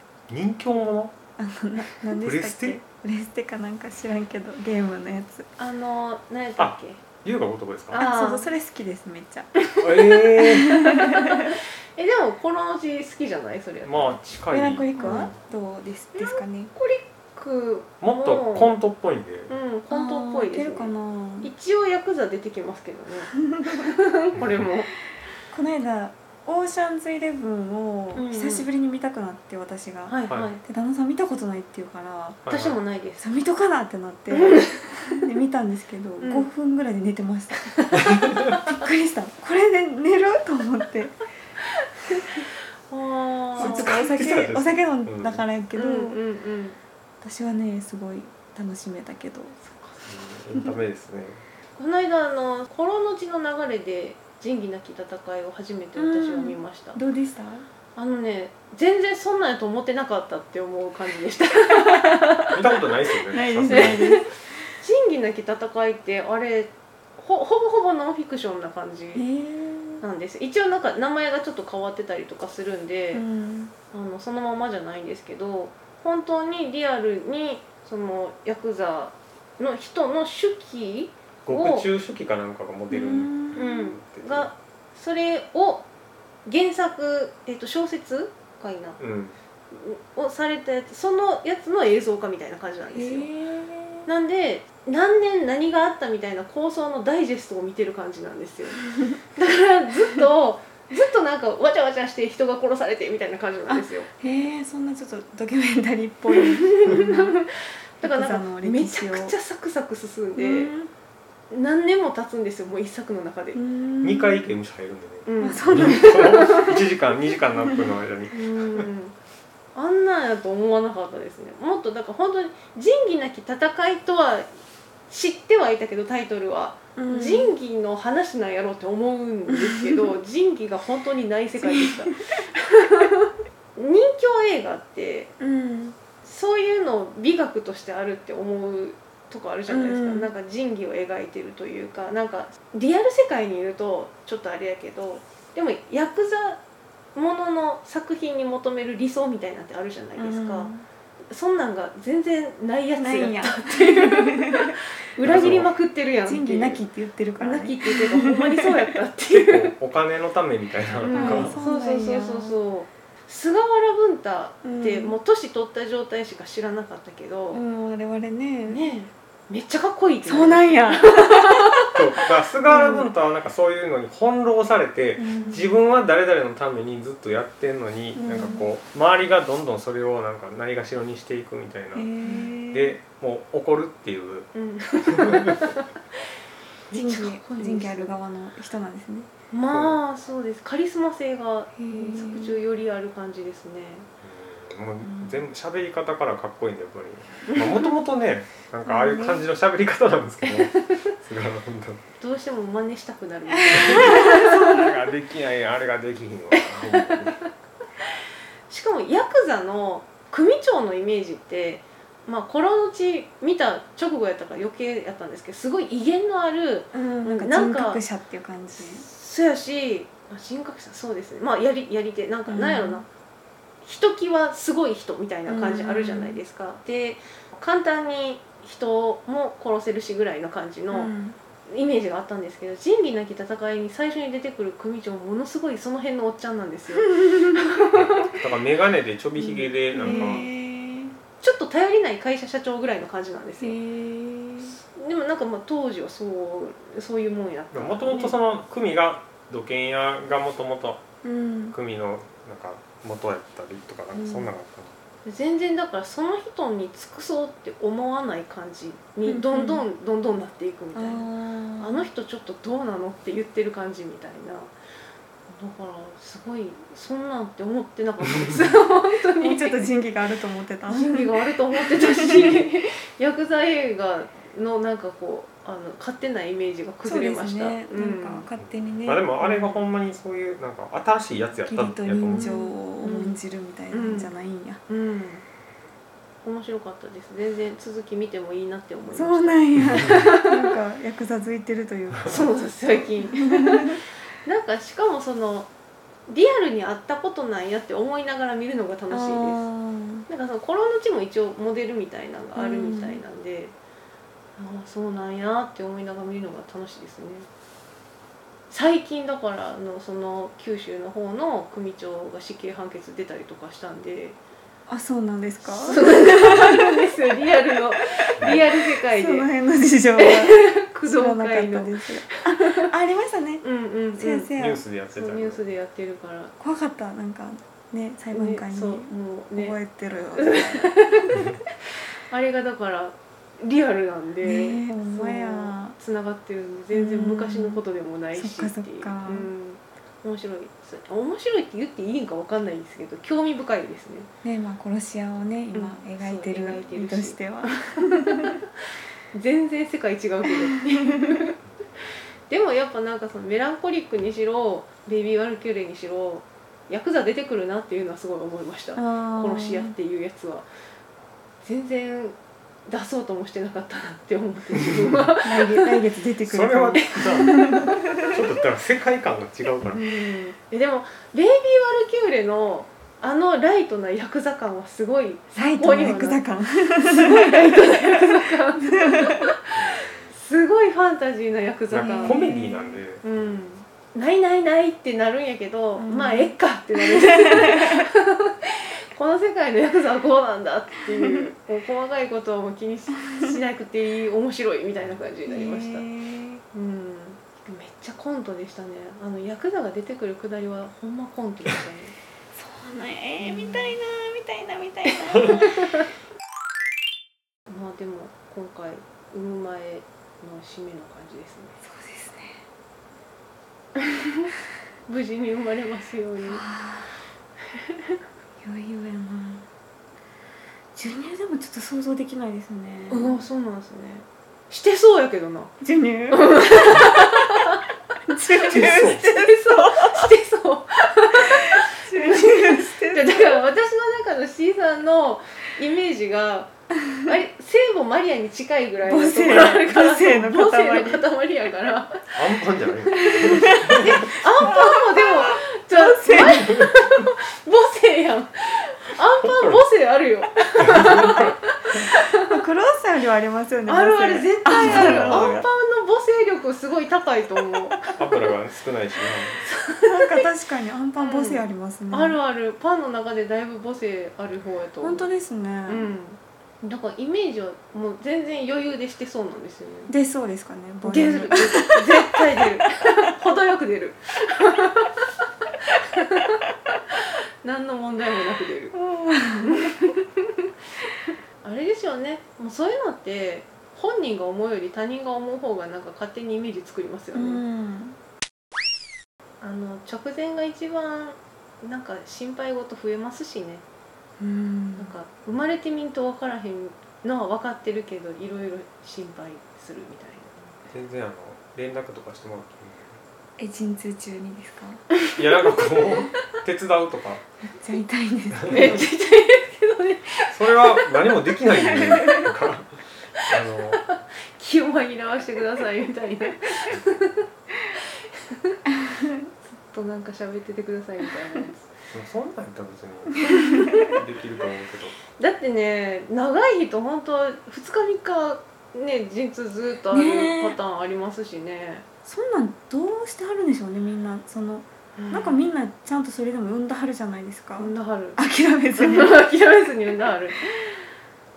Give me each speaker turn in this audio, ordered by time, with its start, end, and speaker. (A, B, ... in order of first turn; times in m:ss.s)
0:00.3-0:01.1 A
0:01.4-0:05.5 B
0:02.2-0:02.8 A
0:05.6-0:07.0 C
0:06.6-0:08.0 A
0:07.9-0:08.5 C
0:08.0-0:11.6 B
0:09.6-0:14.2 C
0:09.8-0:10.9 A
0:13.8-0:15.4 A
0:14.5-0:16.7 B
0:15.0-0:15.3 C
0:16.1-0:18.8 C
0:18.0-0:19.5 A
0:19.5-0:24.9 C
0:19.9-0:21.5 B
0:23.5-0:23.8 B
0:25.5-0:32.4 B
0:28.1-0:28.7 C
0:30.1-0:30.6 C
0:32.4-0:32.8 A
0:32.5-0:33.2 C
0:33.2-0:41.2 B
0:34.3-0:35.2 C
0:36.2-0:36.5 C
0:37.8-0:38.6 C
0:38.0-0:38.4 A
0:42.1-0:44.0 C
0:43.6-0:45.4 A
0:43.6-0:46.2 B
0:45.8-0:46.8 C
0:47.2-0:49.6 B
0:50.0-0:51.4 A
0:51.8-0:57.0 C
0:56.0-0:57.6 B
0:58.0-1:02.6 C
1:02.5-1:04.1 A
1:03.3-1:04.3 B
1:03.7-1:09.2 C
1:09.1-1:10.0 B
1:10.0-1:13.2 C
1:13.1-1:13.7 B
1:13.9-1:21.9 C
1:21.4-1:24.5 A
1:22.9-1:23.7 B
1:23.5-1:25.9 C
1:26.4-1:29.0 C
1:29.0-1:29.3 A
1:29.7-1:33.3 C
1:32.9-1:34.1 B
1:34.0-1:38.8 C
1:39.3-1:44.1 C
1:43.7-1:47.4 B
1:46.3-1:50.7 C
1:48.0-1:49.3 B
1:50.4-1:50.9 B
1:51.5-1:53.6 C
1:53.5-1:54.5 B
1:54.0-1:58.9 A
1:55.2-1:56.7 C
1:55.4-1:56.8 B
1:57.5-1:57.9 B
1:58.3-1:59.1 C
1:59.7-2:04.5 C
2:05.1-2:15.3 C
2:07.0-2:07.5 B
2:09.5-2:10.1 B
2:11.6-2:12.2 B
2:15.4-2:16.0 B
2:16.2-2:26.6 C
2:19.7-2:20.3 B
2:27.1-2:30.7 C
2:30.2-2:30.8 B
2:31.3-2:36.8 C
2:33.0-2:34.8 B
2:35.2-2:35.7 A
2:35.3-2:35.5 B
2:36.2-2:38.7 B
2:37.4-2:39.7 C
2:39.3-2:41.5 A
2:41.0-2:47.6 C
2:41.1-2:42.6 B
2:44.6-2:45.2 B
2:47.5-2:48.8 B
2:48.7-2:51.9 C
2:50.2-2:51.9 B
2:51.9-3:02.1 A
2:52.7-2:53.1 B
2:55.2-2:55.7 B
2:55.3-2:55.6 C
2:58.1-2:58.7 B
3:01.9-3:03.0 B
3:02.7-3:05.6 A
3:04.5-3:05.8 C
3:06.9-3:08.1 C
3:06.9-3:09.3 B
3:09.5-3:14.1 C
3:09.7-3:10.0 A
3:11.8-3:12.6 B
3:14.2-3:22.0 A
3:15.0-3:15.4 B
3:18.8-3:19.4 B
3:20.5-3:21.0 C
3:22.2-3:24.8 C
3:23.6-3:24.8 B
3:23.7-3:27.4 A
3:26.5-3:27.5 C
3:28.7-3:38.0 C
3:36.9-3:39.0 B
3:38.7-3:43.0 C
3:42.5-3:43.0 B
3:43.8-3:51.1 C
3:45.5-3:46.4 B
3:50.9-3:51.4 B
3:51.7-3:58.3 C
3:57.1-3:57.6 B
3:57.9-4:00.4 A
3:59.4-4:00.5 C
3:59.9-4:01.2 B
4:01.4-4:03.8 C
4:03.6-4:04.8 B
4:04.6-4:08.4 C
4:07.7-4:11.0 A
4:11.2-4:11.8 B
4:11.7-4:15.0 A
4:14.1-4:14.5 B
4:15.2-4:24.7 C
4:19.2-4:19.8 B
4:20.9-4:22.0 B
4:25.5-4:29.9 C
4:29.4-4:32.7 B
4:30.9-4:38.4 C
4:37.0-4:39.3 B
4:38.6-4:42.5 A
4:39.4-4:39.8 C
4:41.6-4:44.8 B
4:42.3-4:43.4 C
4:43.9-4:44.3 C
4:44.9-4:45.4 C
4:46.4-4:50.7 C
4:49.1-4:54.0 B
4:52.2-4:55.7 C
4:56.3-4:59.6 C
4:59.1-5:00.2 B
5:00.3-5:03.7 C
5:02.6-5:03.2 B
5:04.6-5:07.5 C
5:08.7-5:14.4 C
5:14.9-5:17.1 B
5:15.7-5:19.5 C
5:18.4-5:23.6 B
5:20.2-5:22.9 C
5:23.6-5:24.5 C
5:24.2-5:24.8 B
5:24.6-5:25.6 A
5:25.1-5:26.5 C
5:26.6-5:31.4 B
5:28.3-5:29.8 C
5:30.4-5:31.5 C
5:32.3-5:44.3 C
5:34.4-5:36.0 B
5:36.9-5:37.8 B
5:38.3-5:39.5 B
5:44.4-5:48.6 B
5:45.7-5:48.6 C
5:49.3-5:51.6 C
5:50.5-5:51.4 B
5:52.5-6:00.7 C
5:58.9-5:59.9 B
6:01.6-6:02.4 C
6:02.9-6:06.0 C
6:05.4-6:08.4 B
6:06.4-6:10.0 A
6:07.1-6:08.3 C
6:09.9-6:16.4 C
6:15.5-6:19.5 B
6:17.0-6:22.6 C
6:19.8-6:20.3 A
6:21.9-6:23.5 A
6:21.9-6:23.0 B
6:23.2-6:36.0 C
6:26.0-6:28.0 B
6:35.4-6:36.6 B
6:36.7-6:42.1 C
6:42.5-6:45.8 B
6:43.4-6:43.9 C
6:45.6-6:46.0 C
6:47.7-6:51.8 C
6:51.8-6:52.6 B
6:55.1-6:56.6 C
6:56.4-6:57.1 B
6:58.6-6:59.7 B
7:00.9-7:03.4 B
7:03.1-7:05.7 C
7:05.8-7:07.7 B
7:06.3-7:07.8 C
7:08.3-7:10.3 B
7:08.5-7:22.4 C
7:08.7-7:09.2 A
7:11.4-7:13.6 B
7:19.0-7:21.2 B
7:22.3-7:24.2 A
7:23.1-7:32.5 C
7:23.2-7:26.9 B
7:29.4-7:29.8 A
7:30.8-7:31.5 A
7:31.0-7:31.4 B
7:32.3-7:35.6 B
7:33.9-7:38.1 C
7:34.7-7:35.6 A
7:38.2-7:39.6 A
7:39.6-7:40.5 C
7:40.0-7:42.4 B
7:41.2-7:45.3 C
7:45.0-7:46.1 B
7:45.9-7:50.1 C
7:50.1-7:53.3 B
7:51.0-7:55.1 C
7:55.8-7:59.0 C
7:58.9-8:00.0 B
7:59.6-8:00.7 C
8:01.6-8:07.6 C
8:07.3-8:08.2 B
8:09.6-8:13.8 C
8:14.4-8:15.1 B
8:15.0-8:20.7 C
8:20.9-8:23.2 A
8:23.6-8:25.0 B
8:25.3-8:27.4 A
8:27.7-8:29.0 B
8:28.5-8:29.0 A
8:28.7-8:30.8 C
8:30.5-8:34.0 A
8:31.7-8:32.5 B
8:33.7-8:38.8 C
8:39.0-8:39.5 B
8:39.7-8:41.9 C
8:42.1-8:45.2 A
8:43.4-8:44.1 B
8:43.4-8:44.2 C
8:45.4-8:52.0 C
8:50.1-8:50.8 B
8:52.2-8:59.4 B
8:55.2-8:55.6 C
8:57.8-8:58.4 C
8:58.9-9:00.8 C